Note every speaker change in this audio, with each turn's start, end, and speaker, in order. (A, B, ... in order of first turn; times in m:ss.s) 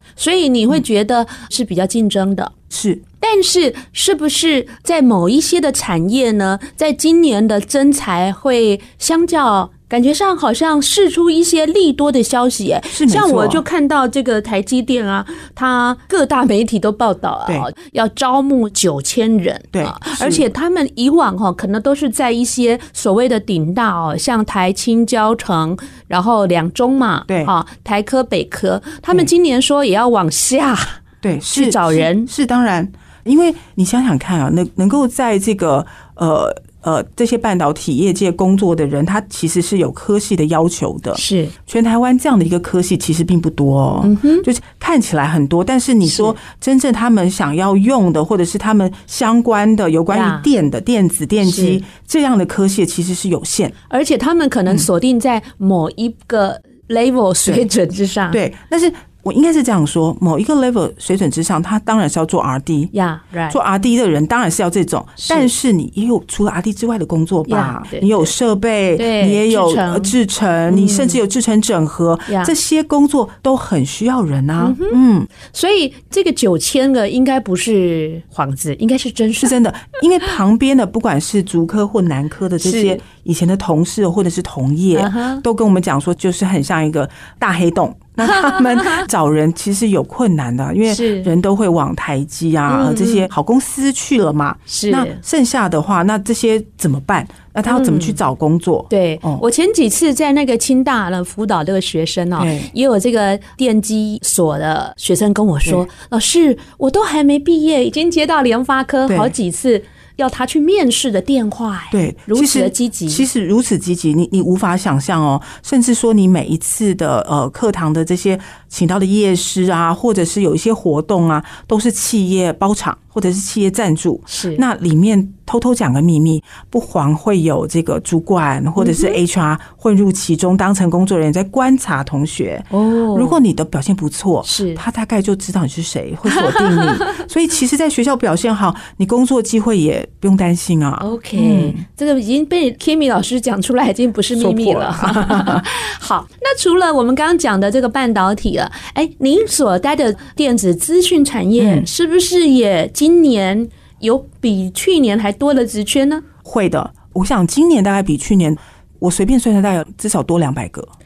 0:00.2-0:02.5 A
0:02.7-0:03.0 B
0:03.2-0:31.0 A
0:12.9-0:13.6 B
0:19.7-0:20.5 B
0:27.3-0:27.5 B
0:31.2-0:53.7 B
0:31.5-0:32.3 A
0:41.2-0:41.5 A
0:44.0-0:44.5 A
0:46.0-0:46.4 A
0:50.1-0:50.5 A
0:51.4-0:51.8 A
0:53.9-0:58.4 A
0:58.3-1:02.9 B
1:02.9-1:03.6 A
1:03.5-1:15.3 B
1:05.2-1:05.5 A
1:07.5-1:08.3 A
1:09.0-1:10.2 A
1:10.7-1:11.2 A
1:12.3-1:12.5 A
1:14.6-1:19.6 A
1:19.4-1:39.4 B
1:22.6-1:23.0 A
1:24.9-1:25.4 A
1:28.3-1:29.0 A
1:30.9-1:31.3 A
1:32.7-1:33.3 A
1:34.7-1:35.2 A
1:37.7-1:38.2 A
1:38.9-1:53.2 A
1:42.4-1:42.7 B
1:49.1-1:49.3 B
1:51.9-2:21.8 B
2:04.3-2:04.6 A
2:08.8-2:09.2 A
2:12.7-2:13.4 A
2:14.4-2:14.8 A
2:16.4-2:17.1 A
2:21.0-2:36.2 A
2:24.4-2:25.7 B
2:31.6-2:31.9 B
2:36.4-2:40.9 B